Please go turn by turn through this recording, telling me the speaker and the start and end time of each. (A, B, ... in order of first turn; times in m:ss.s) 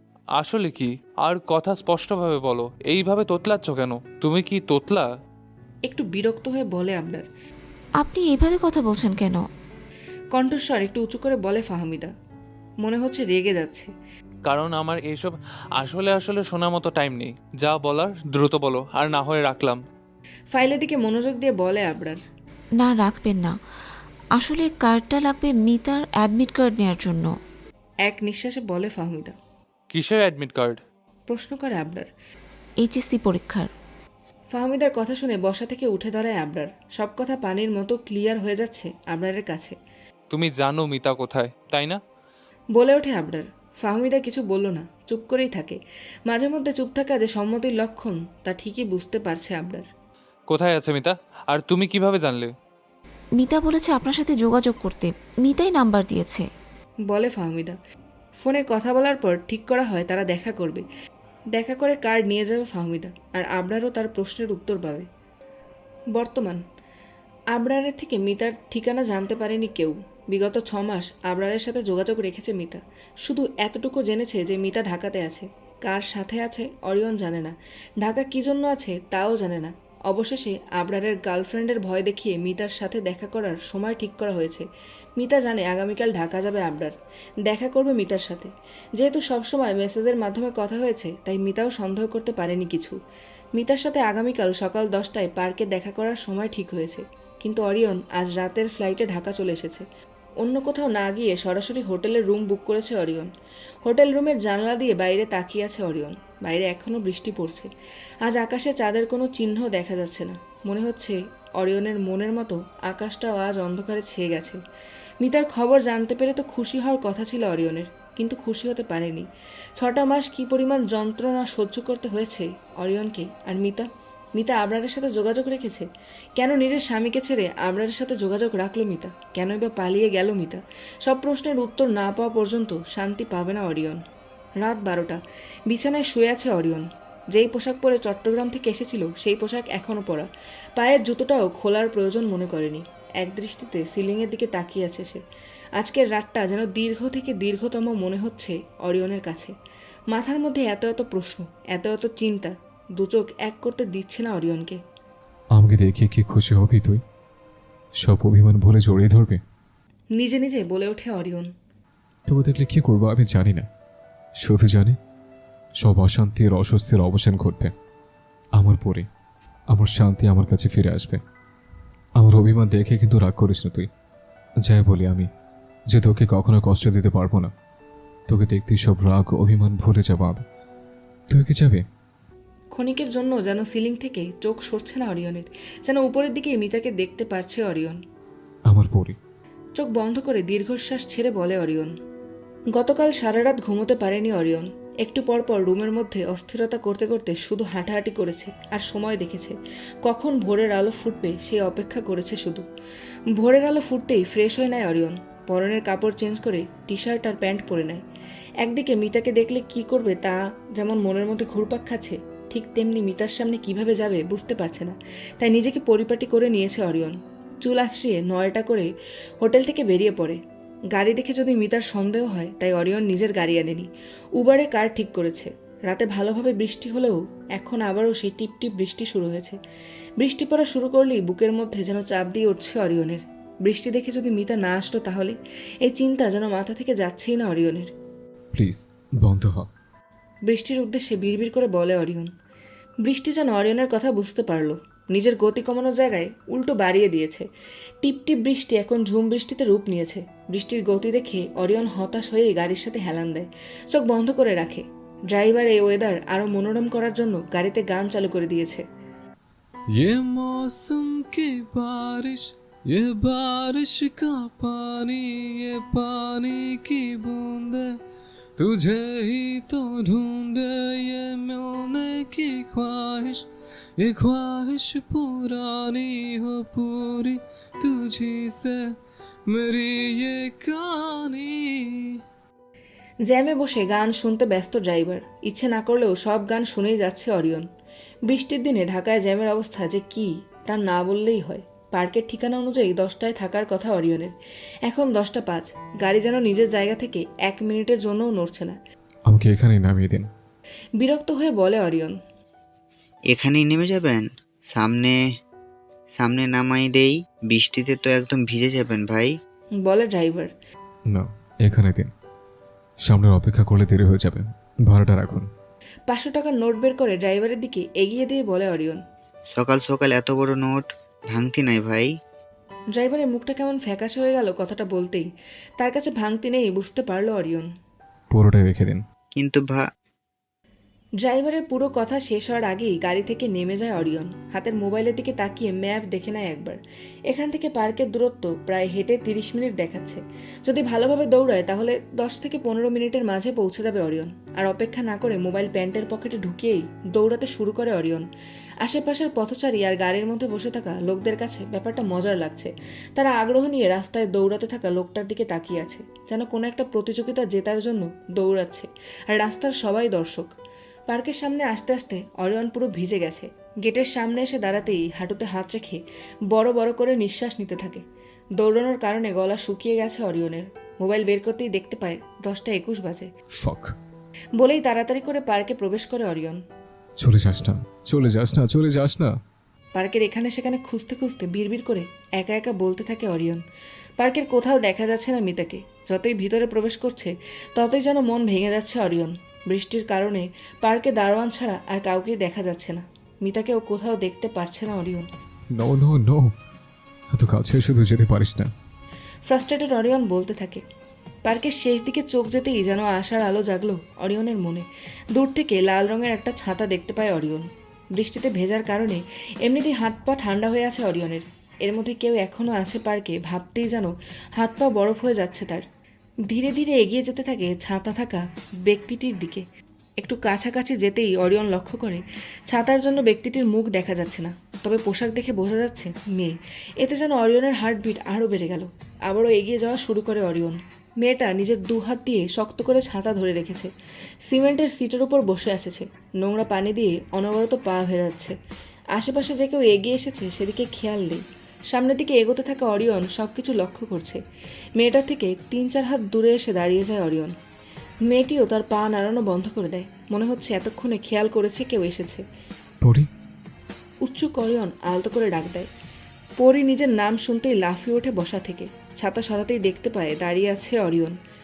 0:00.4-0:05.1 A
0:05.9-0:07.2 B
0:08.0-0:09.4 C
0:10.3-0:12.1 B
0:12.8-0:13.9 B
0:14.5-0:19.8 A
0:20.5-0:22.2 B
0:22.8-0:23.6 C
0:24.3-0:27.3 C
0:28.0-0:29.4 B
0:29.9-0:30.8 A
0:31.3-0:32.1 B
0:32.8-0:33.7 C
0:34.5-0:39.8 B
0:40.3-0:42.0 A
0:42.8-0:49.9 B
0:50.5-0:52.5 A
0:53.4-0:56.5 C
0:57.1-0:57.8 B
0:58.4-1:00.8 B
1:01.6-1:05.1 B
1:06.1-1:06.6 B
1:07.5-1:24.7 B
1:25.2-1:27.0 B
1:27.5-1:33.0 B
1:33.6-1:39.8 B
1:40.4-1:43.3 B
1:43.8-1:47.7 B
1:48.2-1:54.6 B
1:55.2-1:59.3 B
1:59.8-2:14.0 B
2:14.6-2:25.2 B
2:25.8-2:29.5 B
2:30.1-2:34.8 B
2:35.5-2:37.0 D
2:38.0-2:39.4 D
2:40.2-2:41.5 B
2:42.3-2:43.7 D
2:44.4-2:45.0 D
2:45.8-2:47.7 D
2:48.6-2:49.1 D
2:49.7-2:51.2 D
2:52.2-2:53.9 D
2:54.6-2:55.3 D
2:55.9-2:57.5 D
2:58.3-3:00.4 D
3:01.3-3:01.8 D
3:02.7-3:08.0 B
3:08.7-3:09.2 D
3:09.8-3:11.9 B
3:12.7-3:22.6 B
3:23.4-3:28.0 B
3:28.6-3:38.9 B
3:39.4-3:40.4 B
3:40.9-3:49.6 B
3:50.2-3:57.9 B
3:58.5-3:59.7 D
4:00.5-4:02.3 B
4:03.0-4:07.5 B
4:08.0-4:18.8 B
4:20.0-4:28.0 E
4:28.6-4:33.4 E
4:34.0-4:38.9 E
4:39.5-4:42.2 E
4:43.3-4:47.7 B
4:48.3-4:54.3 B
4:54.9-4:58.8 B
4:59.3-5:00.3 D
5:01.0-5:02.2 B
5:03.3-5:05.2 F
5:06.1-5:09.3 F
5:09.8-5:10.5 B
5:11.1-5:12.1 D
5:13.0-5:15.5 D
5:16.1-5:19.0 B
5:19.6-5:22.1 F
5:23.0-5:25.3 B
5:25.8-5:27.7 B
5:28.3-5:29.0 D
5:29.4-5:29.8 F
5:31.2-5:36.8 B
5:37.3-5:48.2 B
5:48.8-6:00.5 B
6:01.1-6:06.0 B
6:06.5-6:08.0 B
6:08.6-6:13.3 B
6:13.6-6:14.0 D
6:14.6-6:16.6 B
6:17.2-6:19.3 D
6:20.0-6:23.6 B
6:24.2-6:35.3 B
6:35.7-6:36.5 D
6:37.3-6:38.7 D
6:39.5-6:40.8 B
6:41.4-6:55.8 B
6:56.5-6:59.6 B
7:00.2-7:13.9 B
7:14.4-7:18.6 B
7:19.2-7:24.4 B
7:25.0-7:27.5 B
7:28.3-7:32.4 B
7:33.0-7:33.3 D
7:34.2-7:35.9 B
7:36.6-7:41.4 B